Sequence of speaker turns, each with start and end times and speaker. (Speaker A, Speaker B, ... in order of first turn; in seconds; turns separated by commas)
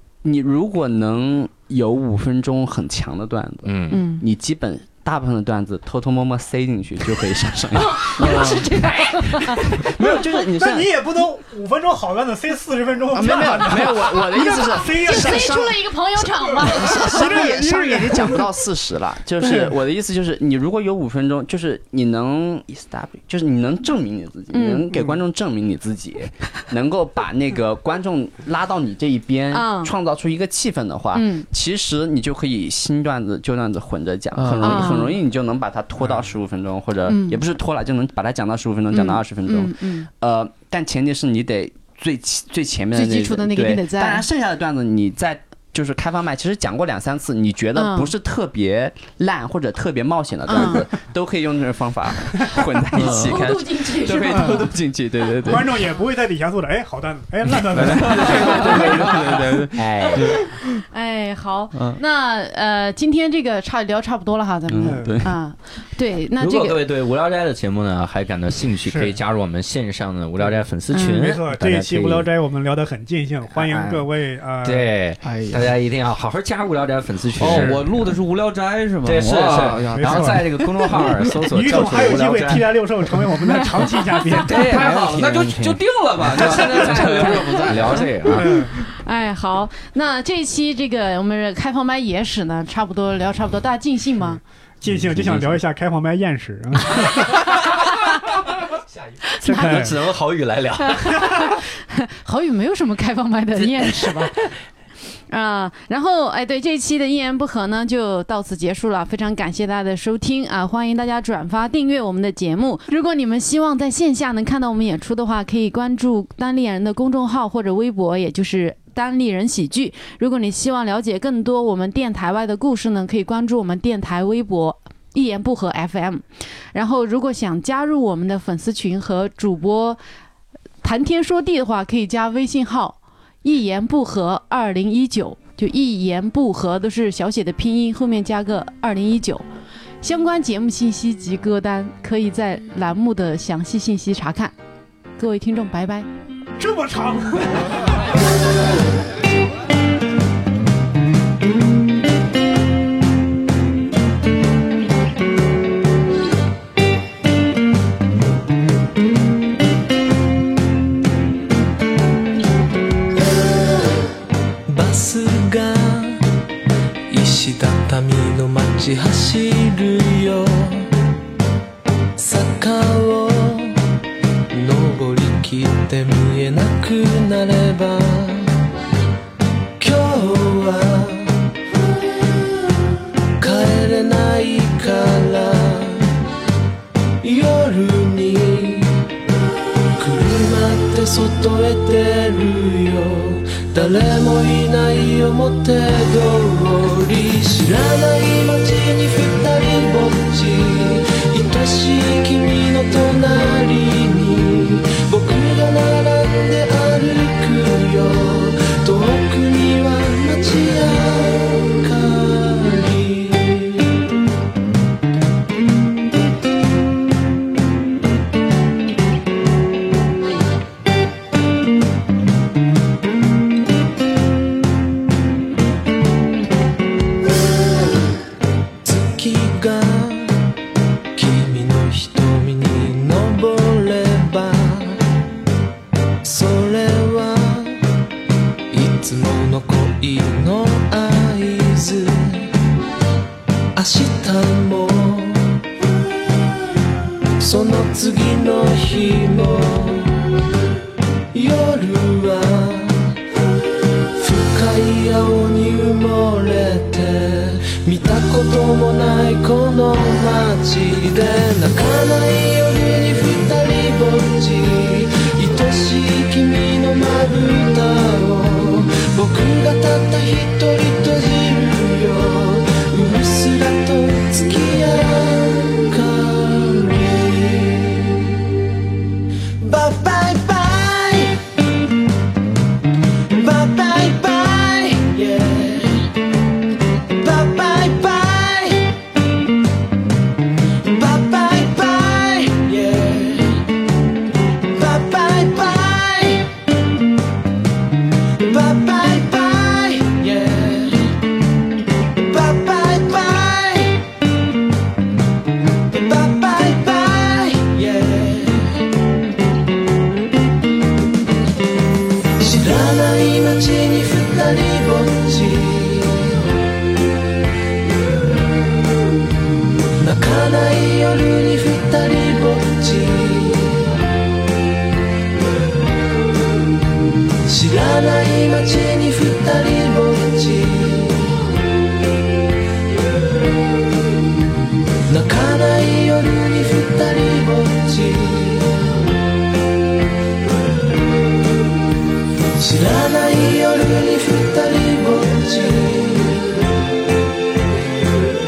Speaker A: 0.2-8.7, Speaker B: 3.6-4.0, Speaker C: 3.9-4.2, Speaker C: 7.8-9.8, Speaker A: 9.4-10.9, Speaker D: 10.6-15.8, Speaker A: 13.1-15.7, Speaker C: 13.2-17.4, Speaker D: 16.3-18.6, Speaker A: 16.6-55.9, Speaker D: 19.4-19.8, Speaker C: 24.5-25.1, Speaker C: 29.5-29.9, Speaker C: 31.1-31.5, Speaker E: 34.3-35.1, Speaker C: 34.6-35.2, Speaker C: 37.1-37.4, Speaker C: 38.9-40.1, Speaker C: 42.9-44.2, Speaker C: 47.8-48.1, Speaker C: 50.5-50.9, Speaker C: 52.6-54.7, Speaker E: 53.0-53.4, Speaker D: 54.3-54.7, Speaker D: 55.5-59.6, Speaker E: 57.7-60.6, Speaker C: 58.5-59.0, Speaker B: 59.7-60.4, Speaker C: 60.0-66.8, Speaker E: 61.7-62.0, Speaker A: 64.7-65.3, Speaker D: 64.8-65.2, Speaker B: 66.4-72.3, Speaker D: 68.9-69.2, Speaker C: 70.9-71.3, Speaker D: 71.1-74.9, Speaker B: 73.5-74.1, Speaker B: 74.6-77.9, Speaker E: 75.2-75.7, Speaker E: 77.4-81.1, Speaker D: 77.4-77.8, Speaker B: 79.0-82.8, Speaker D: 79.8-80.7, Speaker D: 81.4-84.9, Speaker B: 84.4-88.7, Speaker E: 84.4-88.1, Speaker D: 86.4-87.0, Speaker D: 88.3-88.8, Speaker C: 88.6-94.4, Speaker D: 94.2-97.6, Speaker B: 94.9-95.6, Speaker C: 97.0-98.2, Speaker B: 98.6-101.4, Speaker C: 99.4-99.9, Speaker D: 99.4-100.0, Speaker C: 100.8-104.5, Speaker B: 103.8-104.4, Speaker C: 105.3-130.0, Speaker C: 130.8-139.4, Speaker C: 140.0-144.5, Speaker C: 145.2-146.1, Speaker D: 146.6-148.0, Speaker F: 164.7-166.2, Speaker F: 167.1-170.9, Speaker F: 172.2-173.8, Speaker F: 174.5-178.6, Speaker F: 179.8-181.5, Speaker F: 183.4-186.1, Speaker F: 187.2-189.1, Speaker F: 190.0-214.0, Speaker F: 228.8-230.4, Speaker F: 231.2-235.0, Speaker F: 236.2-237.8, Speaker F: 238.7-242.5, Speaker F: 243.8-245.6, Speaker F: 247.4-250.3, Speaker F: 251.3-253.2, Speaker F: 254.2-278.3, Speaker F: 279.6-281.5, Speaker F: 283.3-286.1, Speaker F: 287.1-289.0, Speaker F: 290.8-293.7, Speaker F: 294.6-296.5, Speaker F: 298.4-301.2, Speaker F: 302.1-304.1, Speaker F: 305.9-308.8, Speaker F: 312.4-316.5, Speaker F: 320.0-323.9, Speaker F: 327.5-331.4, Speaker F: 335.1-339.0, Speaker F: 342.6-346.6